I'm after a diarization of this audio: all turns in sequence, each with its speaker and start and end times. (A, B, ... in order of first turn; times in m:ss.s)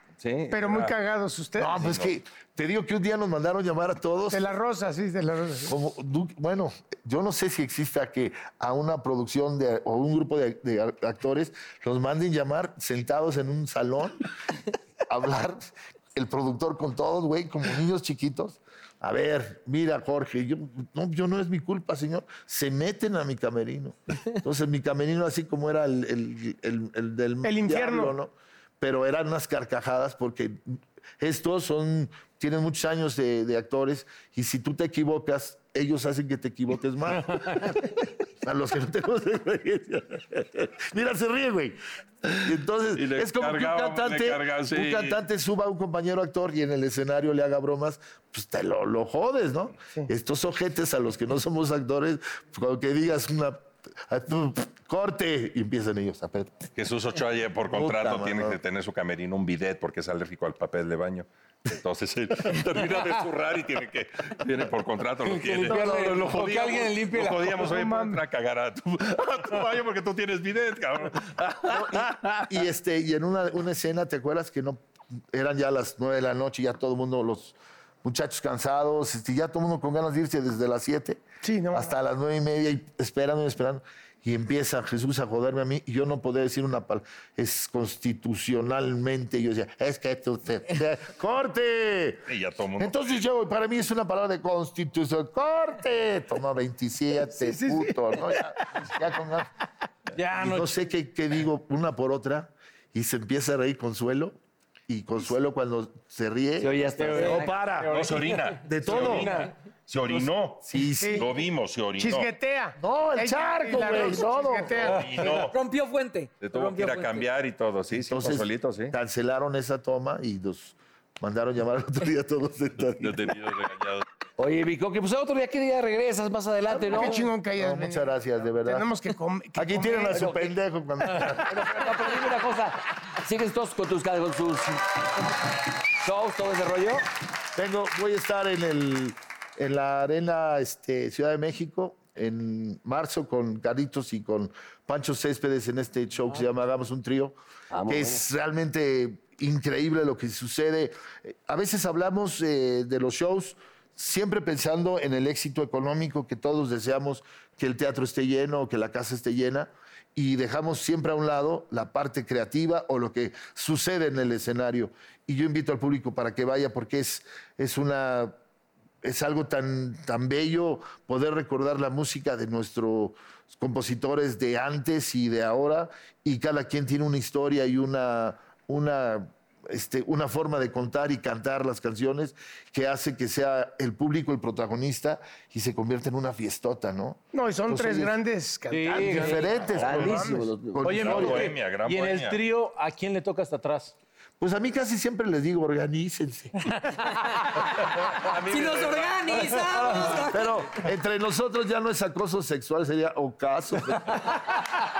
0:00.2-0:00.9 A
0:00.5-0:01.8 B
0:01.6-0:04.4 C
0:01.8-0:02.1 A
0:04.3-0:05.7 B
0:05.7-0:14.3 C
0:15.1-0:37.6 C
0:27.4-0:28.1 B
0:38.4-0:41.8 C
0:42.4-0:56.6 C
0:42.9-0:45.2 A
0:56.8-1:12.6 A
0:57.7-0:58.6 C
1:05.2-1:07.7 D
1:07.6-1:08.2 B
1:11.7-1:14.8 C
1:15.3-1:32.2 C
1:21.4-1:21.9 B
1:32.3-1:33.1 A
1:32.8-1:39.5 C
1:37.3-1:38.0 B
1:40.1-1:40.8 D
1:40.4-1:44.4 C
1:44.9-1:48.0 C
1:46.6-1:47.6 E
1:47.0-1:49.5 D
1:47.9-1:52.3 A
1:48.6-1:49.4 C
1:50.1-1:51.2 C
1:51.0-1:51.3 B
1:52.0-1:55.5 B
1:52.8-1:54.8 C
1:54.8-1:55.5 A
1:55.3-1:57.2 F
1:56.4-1:58.9 A
1:58.0-2:03.3 C
2:03.0-2:04.0 A
2:04.4-2:07.3 E
2:06.8-2:08.9 C
2:06.9-2:08.0 B
2:08.6-2:10.2 B
2:09.6-2:11.6 C
2:10.1-2:10.5 E
2:11.2-2:14.8 E
2:16.0-2:17.0 E
2:17.6-2:27.3 C
2:27.7-2:28.2 E
2:27.9-2:48.3 C
2:49.0-3:08.1 C
3:07.3-3:10.5 B
3:08.7-3:09.6 D
3:08.9-3:11.6 C
3:09.3-3:10.8 E
3:10.8-3:13.9 D
3:10.9-3:12.4 A
3:14.4-3:16.5 C
3:16.7-3:17.1 D
3:18.1-3:20.3 A
3:18.5-3:20.7 F
3:20.1-3:24.4 C